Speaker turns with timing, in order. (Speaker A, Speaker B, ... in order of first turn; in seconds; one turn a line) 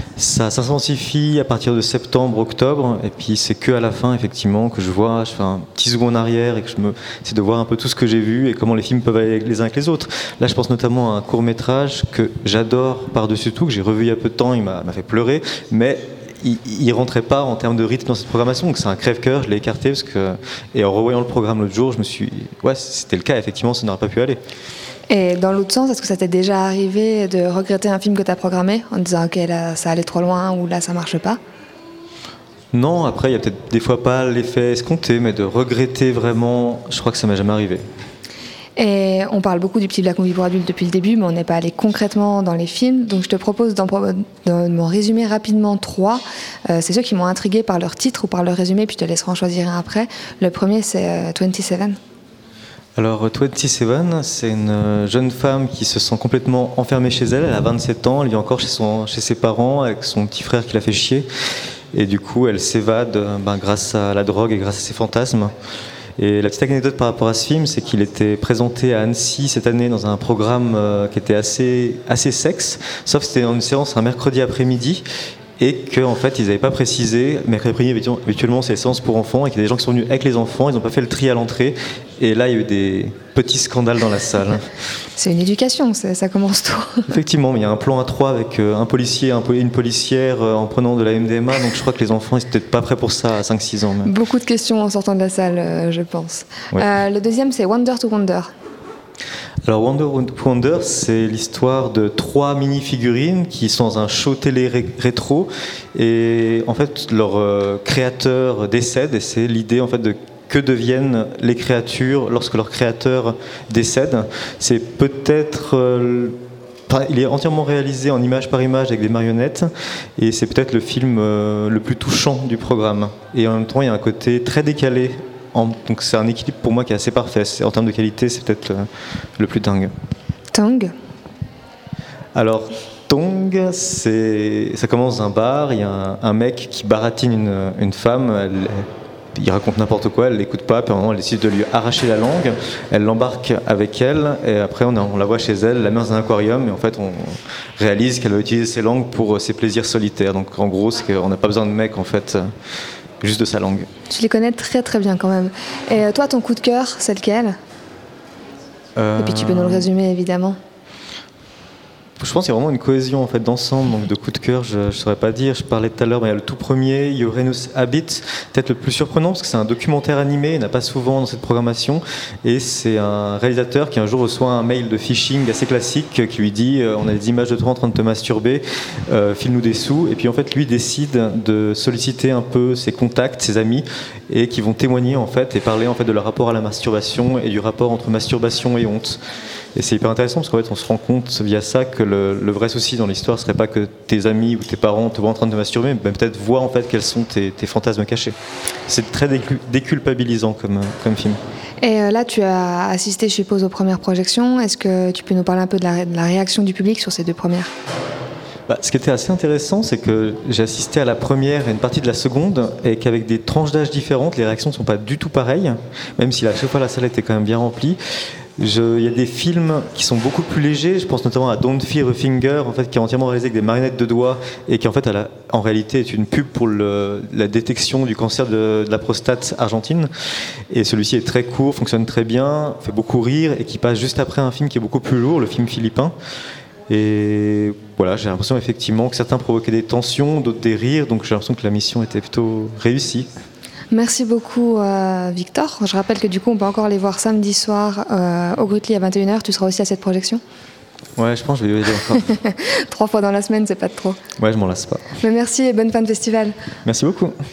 Speaker A: 0.2-24.4
Speaker B: 25.1-31.4
Speaker A: 32.7-37.8
Speaker B: 38.8-52.0
Speaker A: 53.0-61.2
Speaker A: 61.9-65.5
Speaker A: 66.2-75.0
Speaker A: 75.6-84.7
Speaker B: 85.2-87.1
Speaker A: 87.1-94.1
Speaker B: 94.0-98.5
Speaker A: 99.6-116.3
Speaker A: 116.9-129.9
Speaker B: 130.5-130.9
Speaker A: 132.3-152.5
Speaker A: 153.2-153.9
Speaker B: 154.1-157.6
Speaker A: 158.9-159.9
Speaker B: 159.2-160.6
Speaker A: 162.2-189.2
Speaker A: 189.7-198.3
Speaker A: 198.9-201.4
Speaker B: 201.8-207.7
Speaker A: 208.7-218.0
Speaker A: 218.6-230.1
Speaker A: 230.7-236.1
Speaker A: 236.9-243.3
Speaker B: 243.9-250.4
Speaker A: 251.2-252.3
Speaker B: 252.3-254.2
Speaker A: 254.4-255.1
Speaker B: 255.2-256.5
Speaker A: 256.8-257.3